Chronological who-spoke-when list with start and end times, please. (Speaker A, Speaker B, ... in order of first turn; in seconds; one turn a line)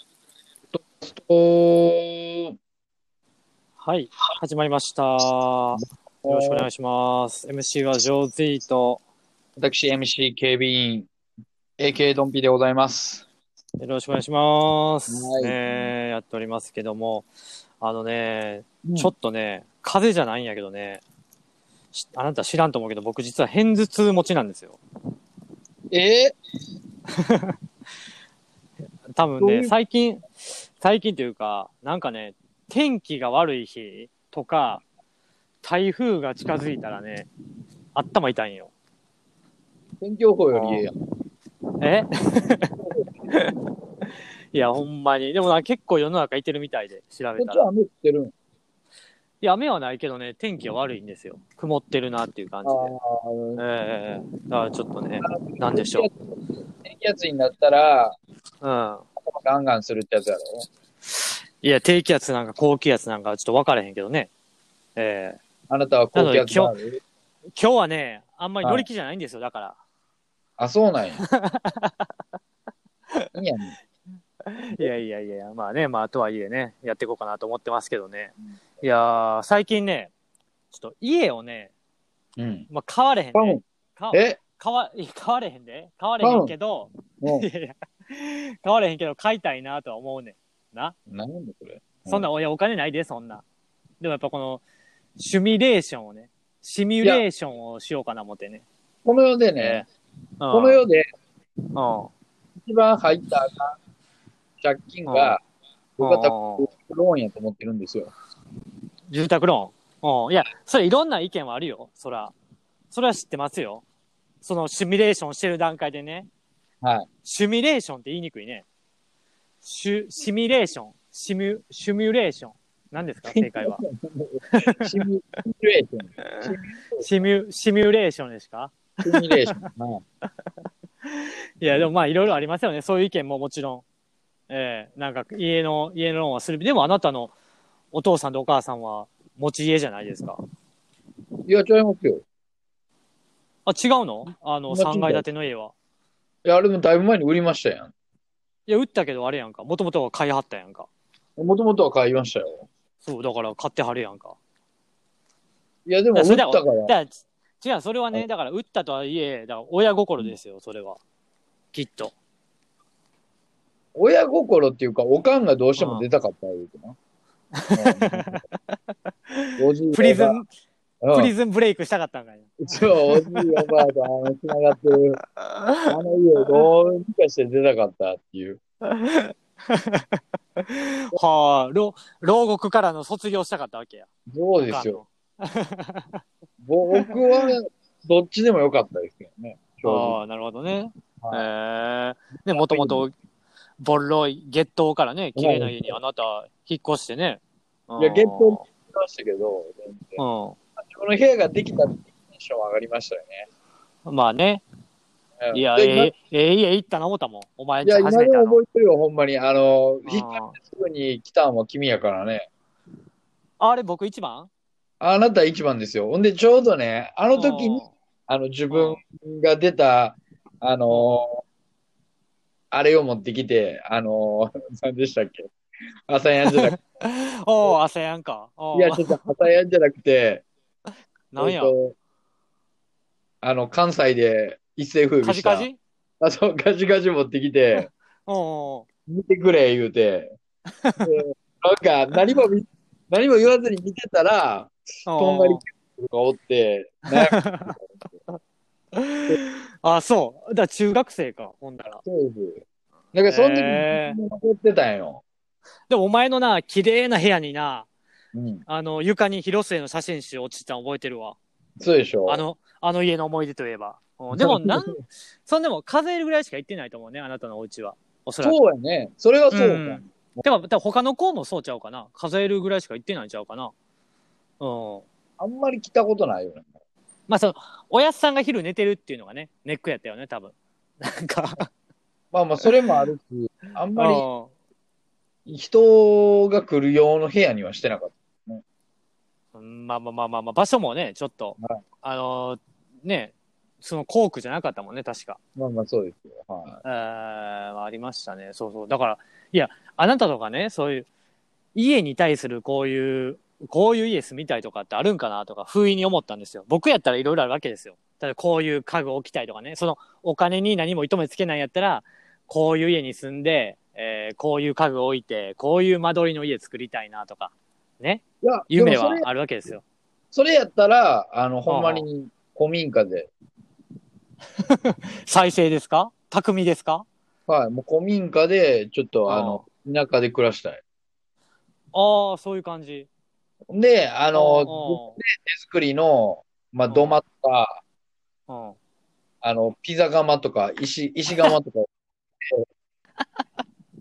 Speaker A: 0.7-2.5
Speaker B: 3.8-9.0
Speaker A: 5.8-6.7
Speaker A: 9.6-11.1
Speaker A: 11.8-13.2
Speaker B: 13.8-17.3
Speaker A: 15.1-15.9
Speaker B: 17.8-21.0
Speaker A: 18.8-19.1
Speaker B: 21.9-24.8
Speaker A: 25.9-26.3
Speaker B: 27.1-27.5
Speaker B: 29.1-34.8
Speaker A: 29.4-29.7
Speaker B: 35.6-37.3
Speaker B: 37.9-38.7
Speaker A: 40.0-40.9
Speaker B: 40.5-40.9
Speaker B: 41.8-42.7
Speaker A: 42.8-43.1
Speaker B: 44.5-47.7
Speaker A: 47.4-48.3
Speaker B: 49.4-52.9
Speaker A: 52.6-53.6
Speaker B: 53.6-56.1
Speaker A: 55.2-58.1
Speaker B: 58.6-59.0
Speaker A: 59.2-60.6
Speaker B: 61.2-64.3
Speaker B: 65.0-65.4
Speaker A: 65.7-67.0
Speaker B: 66.1-66.7
Speaker B: 67.5-69.8
Speaker A: 68.6-68.9
Speaker A: 70.6-71.2
Speaker B: 71.3-72.1
Speaker A: 73.3-73.7
Speaker B: 74.5-80.1
Speaker B: 80.7-81.7
Speaker A: 82.4-82.7
Speaker B: 82.7-90.9
Speaker A: 83.3-84.4
Speaker A: 86.2-86.5
Speaker A: 87.2-87.5
Speaker A: 91.1-92.3
Speaker B: 92.1-93.4
Speaker B: 94.0-94.6
Speaker B: 95.2-98.6
Speaker A: 99.0-99.8
Speaker B: 99.6-99.8
Speaker B: 100.4-100.8
Speaker A: 100.5-101.0
Speaker B: 101.7-102.1
Speaker A: 102.6-103.7
Speaker A: 104.6-105.4
Speaker B: 105.1-105.4
Speaker A: 106.0-108.1
Speaker B: 106.0-106.7
Speaker B: 109.1-112.3
Speaker B: 112.9-113.8
Speaker B: 114.4-116.3
Speaker A: 116.8-117.1
Speaker B: 117.2-118.7
Speaker B: 119.6-123.8
Speaker A: 123.3-127.3
Speaker B: 124.5-125.0
Speaker B: 127.0-129.6
Speaker A: 129.0-130.0
Speaker B: 131.1-133.8
Speaker B: 134.5-137.3
Speaker B: 137.9-140.4
Speaker A: 141.5-142.2
Speaker B: 143.7-145.7
Speaker A: 144.7-145.2
Speaker A: 146.4-147.9
Speaker B: 148.7-150.9
Speaker A: 151.4-152.7
Speaker B: 153.0-154.4
Speaker A: 155.8-156.9
Speaker B: 156.1-161.0
Speaker B: 161.7-162.1
Speaker A: 163.9-166.9
Speaker B: 165.8-166.0
Speaker B: 167.6-168.4
Speaker A: 167.7-168.4
Speaker B: 169.3-170.5
Speaker A: 169.6-170.4
Speaker A: 171.0-171.3
Speaker B: 171.1-173.7
Speaker A: 172.6-175.2
Speaker B: 175.4-175.9
Speaker A: 175.9-178.6
Speaker B: 178.9-184.1
Speaker A: 184.3-185.0
Speaker B: 184.6-186.2
Speaker A: 186.6-190.2
Speaker B: 186.9-187.5
Speaker B: 189.8-193.1
Speaker A: 191.2-191.5
Speaker A: 192.5-193.1
Speaker B: 193.8-198.6
Speaker A: 195.3-196.0
Speaker A: 198.0-200.2
Speaker B: 200.2-200.6
Speaker A: 200.8-203.4
Speaker B: 204.0-204.6
Speaker A: 205.4-206.1
Speaker B: 205.5-208.6
Speaker A: 207.8-212.5
Speaker B: 210.1-210.5
Speaker B: 213.6-214.5
Speaker A: 215.0-221.4
Speaker B: 217.3-217.9
Speaker B: 218.7-219.0
Speaker B: 220.9-221.2
Speaker A: 222.7-225.4
Speaker A: 226.1-226.8
Speaker B: 226.4-229.2
Speaker A: 228.7-230.4
Speaker B: 231.3-231.7
Speaker A: 231.4-231.9
Speaker A: 233.4-235.7
Speaker B: 235.2-235.8
Speaker A: 236.2-237.9
Speaker B: 237.8-238.8
Speaker A: 239.1-240.3
Speaker B: 240.8-241.1
Speaker A: 241.0-248.0
Speaker B: 245.1-245.6
Speaker B: 247.1-247.8
Speaker B: 248.9-252.0
Speaker A: 252.0-252.6
Speaker A: 253.1-255.2
Speaker B: 253.3-254.2
Speaker B: 255.9-257.9
Speaker A: 258.3-258.6
Speaker B: 258.7-261.4
Speaker A: 261.8-262.4
Speaker B: 262.3-268.6
Speaker A: 264.3-264.9
Speaker A: 268.4-270.5
Speaker B: 269.5-273.7
Speaker B: 274.6-275.1
Speaker A: 275.4-276.7
Speaker B: 277.3-281.7
Speaker A: 282.3-284.2
Speaker B: 283.9-284.5
Speaker A: 285.5-288.6
Speaker B: 289.5-295.4
Speaker A: 295.6-296.8
Speaker B: 296.8-301.1
Speaker B: 301.7-319.8
Speaker A: 318.4-319.2
Speaker A: 320.3-323.3
Speaker B: 321.7-322.1
Speaker B: 324.6-327.1
Speaker A: 327.5-330.8
Speaker B: 329.3-329.6
Speaker B: 331.9-333.1
Speaker A: 333.7-337.8
Speaker B: 334.3-335.2
Speaker B: 336.9-337.2
Speaker B: 338.5-338.8
Speaker A: 339.4-341.9